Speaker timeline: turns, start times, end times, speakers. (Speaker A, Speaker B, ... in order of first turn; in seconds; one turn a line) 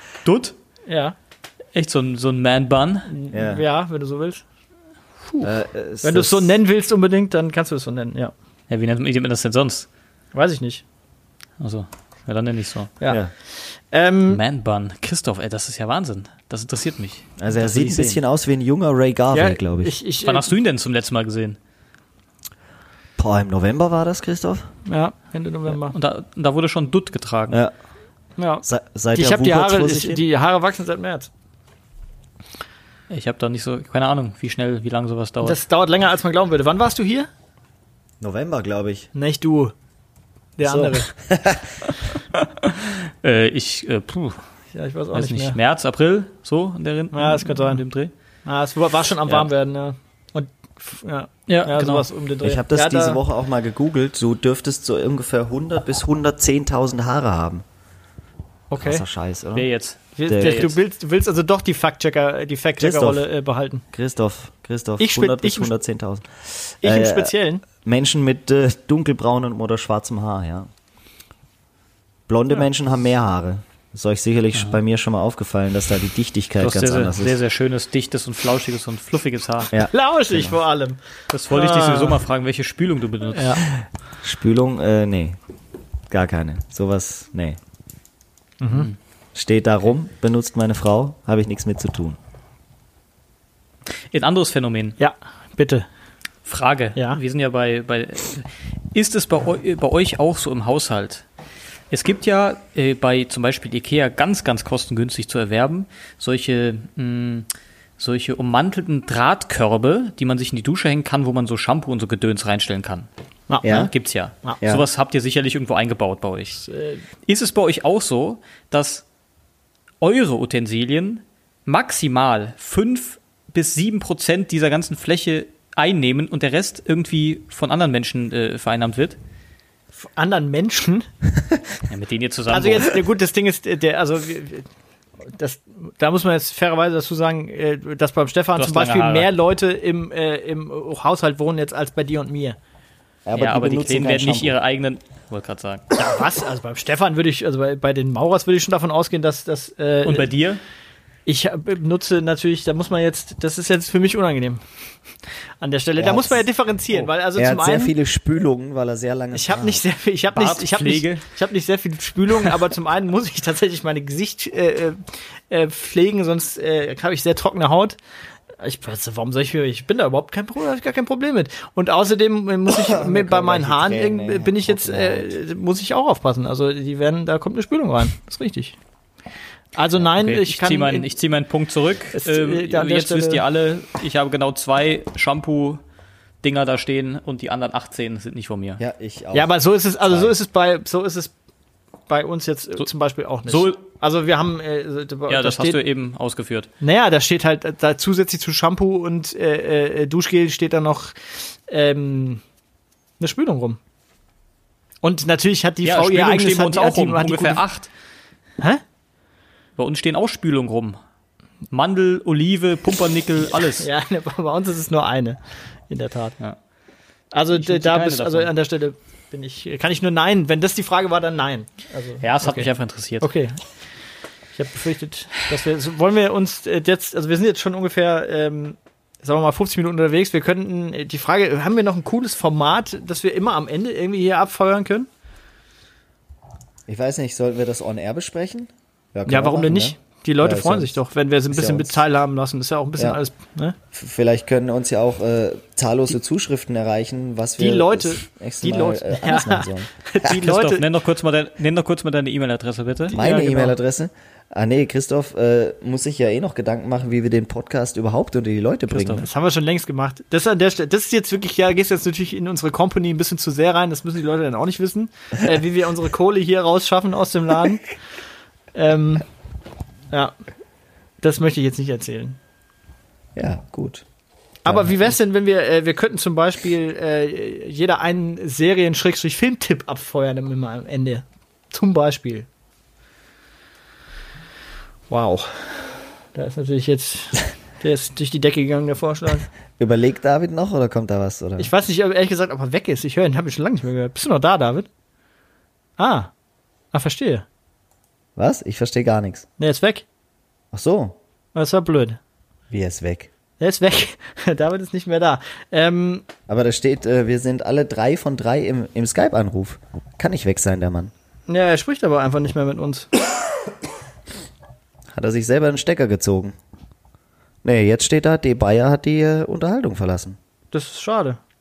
Speaker A: 0.2-0.5
Speaker B: 0.9-1.1
Speaker A: 1.7-3.1
Speaker B: 3.1-4.4
Speaker C: 3.3-3.6
Speaker C: 5.4-6.6
Speaker B: 6.0-8.3
Speaker A: 8.7-9.9
Speaker B: 10.3-10.8
Speaker A: 11.6-12.9
Speaker B: 13.0-14.4
Speaker A: 14.3-18.2
Speaker C: 17.4-19.9
Speaker B: 19.3-20.5
Speaker A: 20.2-21.6
Speaker C: 23.2-24.7
Speaker B: 24.9-25.9
Speaker A: 25.8-27.6
Speaker B: 28.4-31.3
Speaker C: 28.6-30.2
Speaker A: 33.1-35.6
Speaker B: 35.4-37.3
Speaker C: 38.2-39.1
Speaker B: 39.1-39.7
Speaker B: 40.6-41.1
Speaker C: 40.6-41.7
Speaker A: 42.3-44.4
Speaker B: 44.7-45.6
Speaker A: 45.1-48.1
Speaker B: 47.1-47.8
Speaker B: 48.5-53.2
Speaker A: 51.5-52.1
Speaker C: 52.4-57.6
Speaker B: 58.7-59.0
Speaker C: 58.8-59.7
Speaker A: 59.5-60.8
Speaker B: 60.1-63.8
Speaker C: 60.2-60.7
Speaker C: 62.8-63.2
Speaker C: 63.9-70.7
Speaker B: 65.0-65.7
Speaker B: 66.8-67.6
Speaker C: 72.3-77.3
Speaker A: 76.6-79.7
Speaker C: 79.7-80.6
Speaker B: 79.7-81.0
Speaker A: 81.3-83.6
Speaker B: 81.5-82.2
Speaker B: 83.3-83.6
Speaker C: 84.2-85.4
Speaker C: 86.1-87.6
Speaker B: 88.6-88.9
Speaker C: 89.3-92.2
Speaker A: 94.1-95.0
Speaker B: 95.0-95.8
Speaker A: 96.5-101.2
Speaker A: 101.9-107.5
Speaker A: 108.0-113.1
Speaker B: 113.5-113.8
Speaker C: 113.6-113.9
Speaker A: 113.6-116.7
Speaker B: 116.6-117.0
Speaker A: 117.2-119.0
Speaker A: 120.0-129.2
Speaker B: 129.9-131.1
Speaker A: 131.9-133.0
Speaker B: 132.5-134.7
Speaker B: 135.3-142.6
Speaker A: 138.5-139.3
Speaker C: 143.2-144.6
Speaker A: 143.3-145.9
Speaker B: 145.9-150.3
Speaker A: 150.0-150.6
Speaker B: 151.2-154.6
Speaker B: 155.6-157.9
Speaker C: 156.0-156.4
Speaker C: 156.9-159.8
Speaker B: 159.3-168.0
Speaker A: 160.3-161.2
Speaker B: 168.6-178.8
Speaker C: 172.7-175.4
Speaker B: 179.7-181.1
Speaker A: 180.1-185.8
Speaker B: 182.1-183.4
Speaker A: 186.4-188.8
Speaker C: 188.8-190.3
Speaker B: 189.3-191.3
Speaker B: 192.1-195.8
Speaker A: 193.5-193.8
Speaker A: 195.3-196.7
Speaker B: 196.8-202.4
Speaker B: 203.2-203.8
Speaker B: 205.0-207.6
Speaker A: 205.8-207.9
Speaker A: 209.8-211.0
Speaker A: 211.7-213.9
Speaker B: 213.8-216.4
Speaker B: 217.3-223.6
Speaker A: 217.5-218.5
Speaker A: 222.2-223.3
Speaker B: 224.5-235.1
Speaker C: 236.9-240.9
Speaker B: 239.3-243.8
Speaker C: 241.5-242.0
Speaker C: 243.9-249.9
Speaker B: 247.6-250.8
Speaker A: 250.2-253.2
Speaker B: 253.1-253.7
Speaker C: 253.1-259.3
Speaker A: 258.9-259.2
Speaker B: 259.2-267.9
Speaker B: 268.7-269.2
Speaker B: 270.1-270.4
Speaker B: 271.2-272.4
Speaker C: 273.4-274.0
Speaker B: 274.6-282.5
Speaker C: 274.7-275.0
Speaker B: 285.1-289.5
Speaker C: 289.8-291.7
Speaker B: 291.6-294.9
Speaker B: 296.0-296.3
Speaker B: 296.9-297.4
Speaker C: 298.4-299.4
Speaker B: 299.6-300.0
Speaker C: 300.7-301.1
Speaker B: 301.5-302.2
Speaker C: 302.7-303.3
Speaker B: 303.6-306.3
Speaker C: 306.5-311.1
Speaker B: 311.5-313.1
Speaker C: 315.1-316.5
Speaker C: 317.6-320.4
Speaker B: 320.7-321.4